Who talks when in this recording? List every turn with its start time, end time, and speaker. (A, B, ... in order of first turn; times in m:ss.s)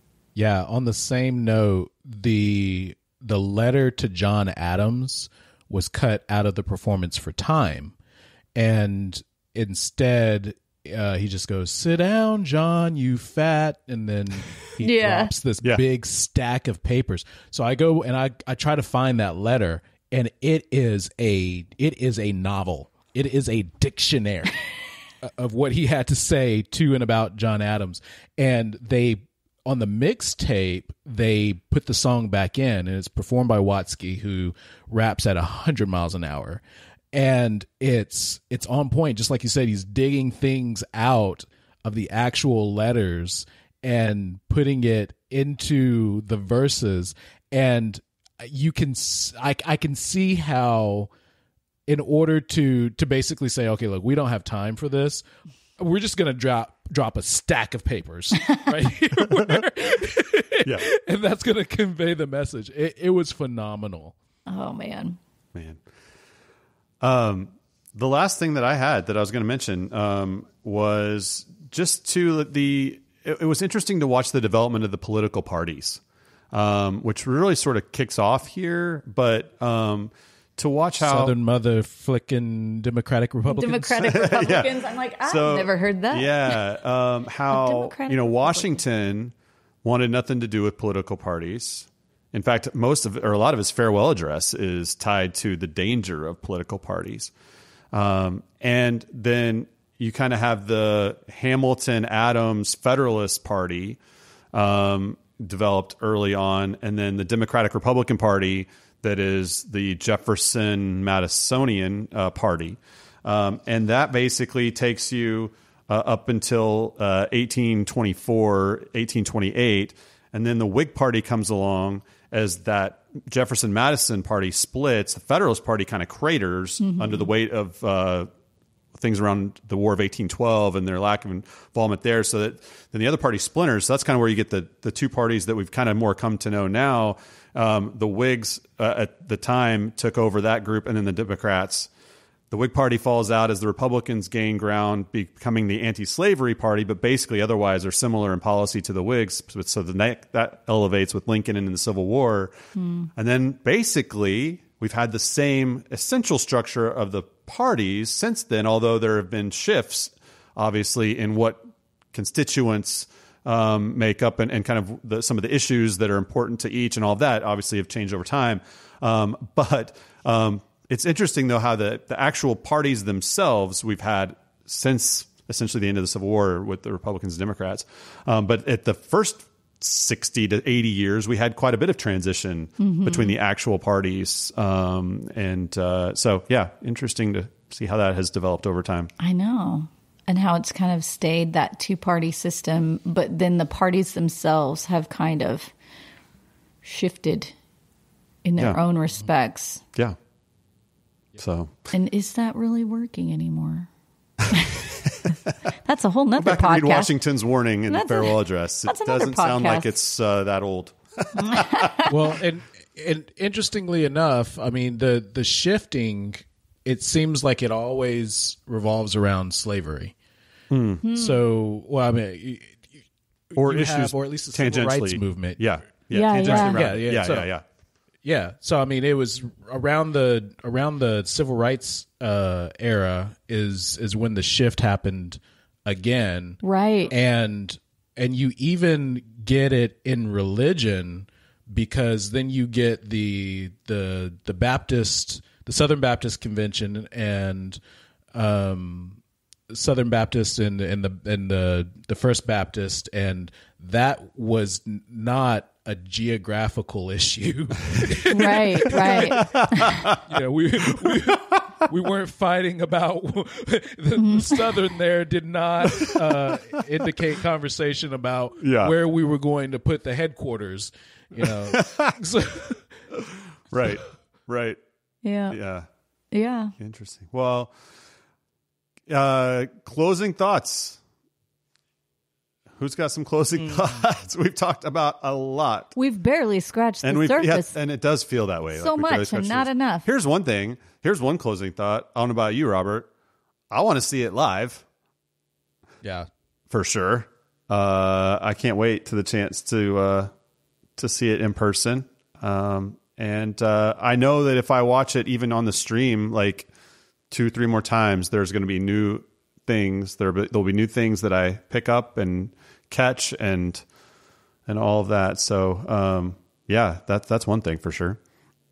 0:00.3-0:07.9 A
0:08.5-0:24.5 A
0:14.8-0:15.3 B
0:25.2-0:51.1 A
0:51.9-0:55.2 A
0:55.8-1:04.1 A
1:00.6-1:00.9 C
1:04.5-1:05.2 B
1:05.5-1:05.8 C
1:07.0-1:16.0 C
1:16.5-1:21.3 C
1:21.0-1:24.4 A
1:23.5-1:26.6 B
1:24.0-1:24.7 C
1:25.2-1:29.3 C
1:27.5-1:28.8 B
1:29.8-1:37.3 C
1:37.9-1:44.0 C
1:44.5-2:08.3 C
2:06.8-2:07.3 B
2:08.9-2:21.9 C
2:22.5-2:32.5 C
2:32.8-2:33.1 B
2:33.2-3:09.1 C
3:02.8-3:03.3 B
3:09.2-3:15.7 B
3:16.8-3:17.5 B
3:18.4-3:19.8 B
3:21.4-3:21.7 C
3:21.9-3:23.9 B
3:25.8-3:27.1 B
3:26.4-3:31.9 C
3:27.9-3:29.9 B
3:31.4-3:32.1 B
3:32.0-3:40.1 A
3:40.7-3:41.0 C
3:41.0-3:41.4 B
3:41.1-3:42.8 A
3:43.5-3:45.7 A
3:43.5-3:47.6 C
3:46.1-3:46.9 B
3:46.4-3:47.5 A
3:48.2-4:07.8 A
3:56.6-3:57.1 B
4:08.3-4:09.2 A
4:09.7-4:32.8 A
4:18.3-4:20.0 B
4:19.0-4:20.2 C
4:21.0-4:21.6 C
4:24.2-4:24.6 B
4:28.6-4:28.9 C
4:31.4-4:32.1 C
4:33.2-4:34.8 C
4:35.2-4:35.6 B
4:35.5-4:35.9 C
4:36.3-4:36.7 B
4:36.8-4:37.7 C
4:39.1-4:41.0 C
4:42.8-4:45.9 C
4:46.0-4:47.7 B
4:47.0-4:53.1 C
4:48.7-4:50.0 B
4:53.7-4:54.8 C
4:56.0-4:56.3 A
4:56.7-5:00.3 C
5:01.0-5:06.7 C
5:07.3-5:13.8 C
5:14.7-5:18.2 C